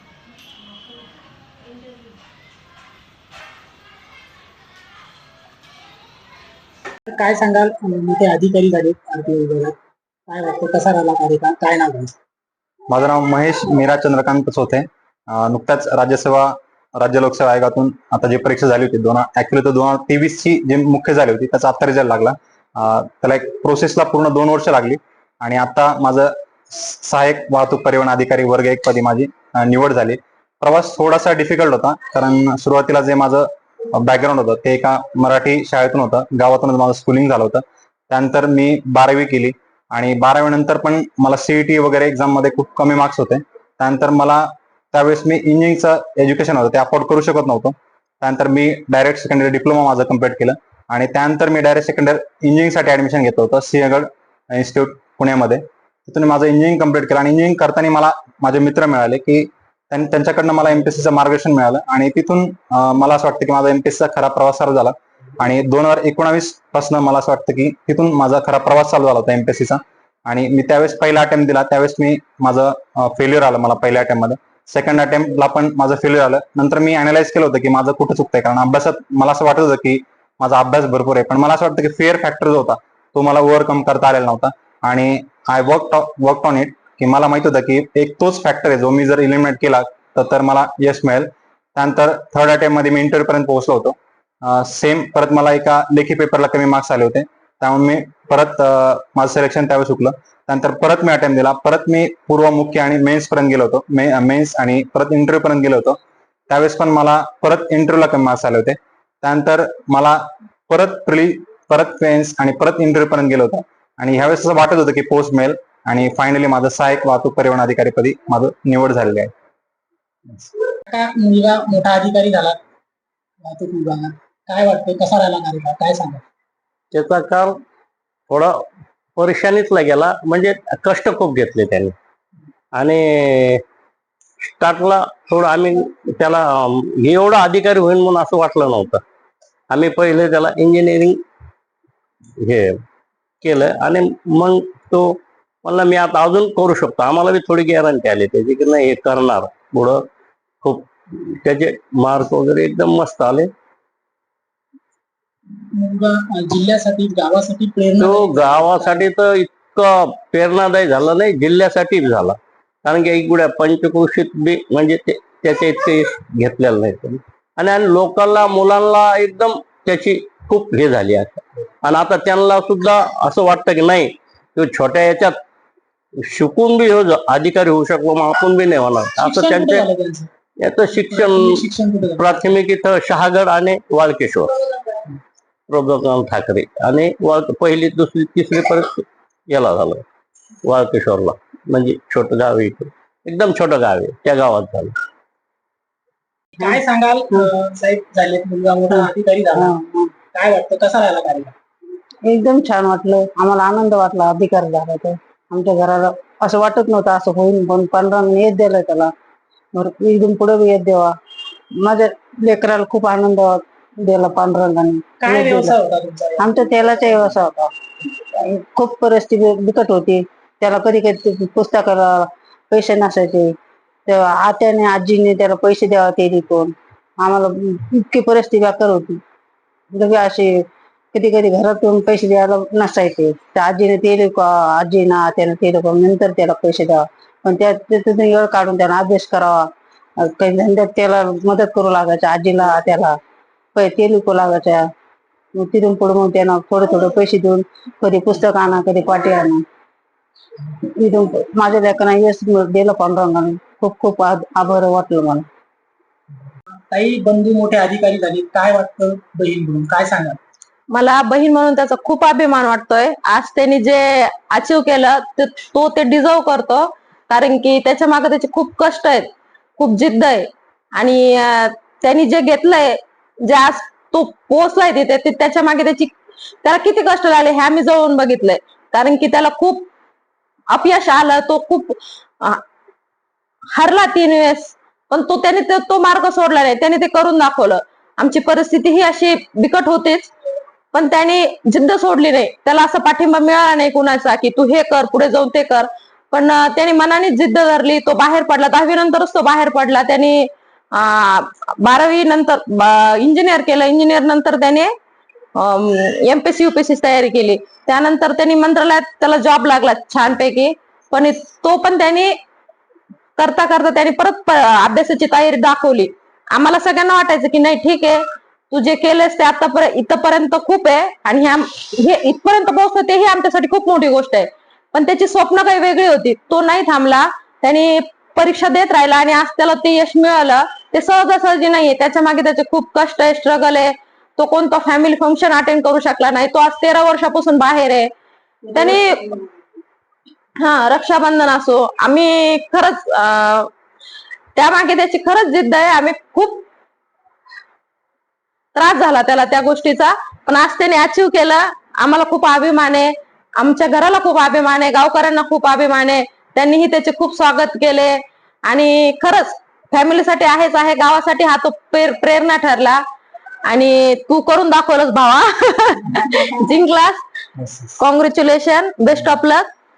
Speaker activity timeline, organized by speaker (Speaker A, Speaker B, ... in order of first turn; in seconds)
Speaker A: 7.1-9.7, 10.3-12.1, 120.9-122.6, 123.4-126.2, 155.7-159.1, 179.2-180.3, 180.9-182.5, 196.6-199.7, 200.3-201.5, 215.2-216.6, 256.9-260.4
Speaker B: 12.9-106.0, 106.5-119.3
Speaker C: 126.9-127.5, 129.2-131.9, 132.8-133.6, 134.4-139.0, 139.7-141.2, 142.4-142.7, 143.4-145.1, 145.6-150.0, 150.6-153.5, 158.0-175.3, 176.2-179.9, 180.6-181.6, 182.2-184.5, 185.7-190.0, 190.7-194.9
Speaker D: 198.9-200.2, 202.2-209.1, 209.7-211.1, 211.8-215.8, 216.4-217.7, 218.4-223.5, 224.1-229.2, 229.9-243.2, 243.7-244.9, 245.5-249.6, 250.9-255.4
Speaker E: 260.9-279.9, 280.7-282.6, 283.7-290.3, 290.9-304.9, 305.6-312.3, 313.4-338.1, 338.7-339.2, 340.6-343.7, 344.5-346.6, 348.7-363.0, 363.6-367.2, 367.9-369.7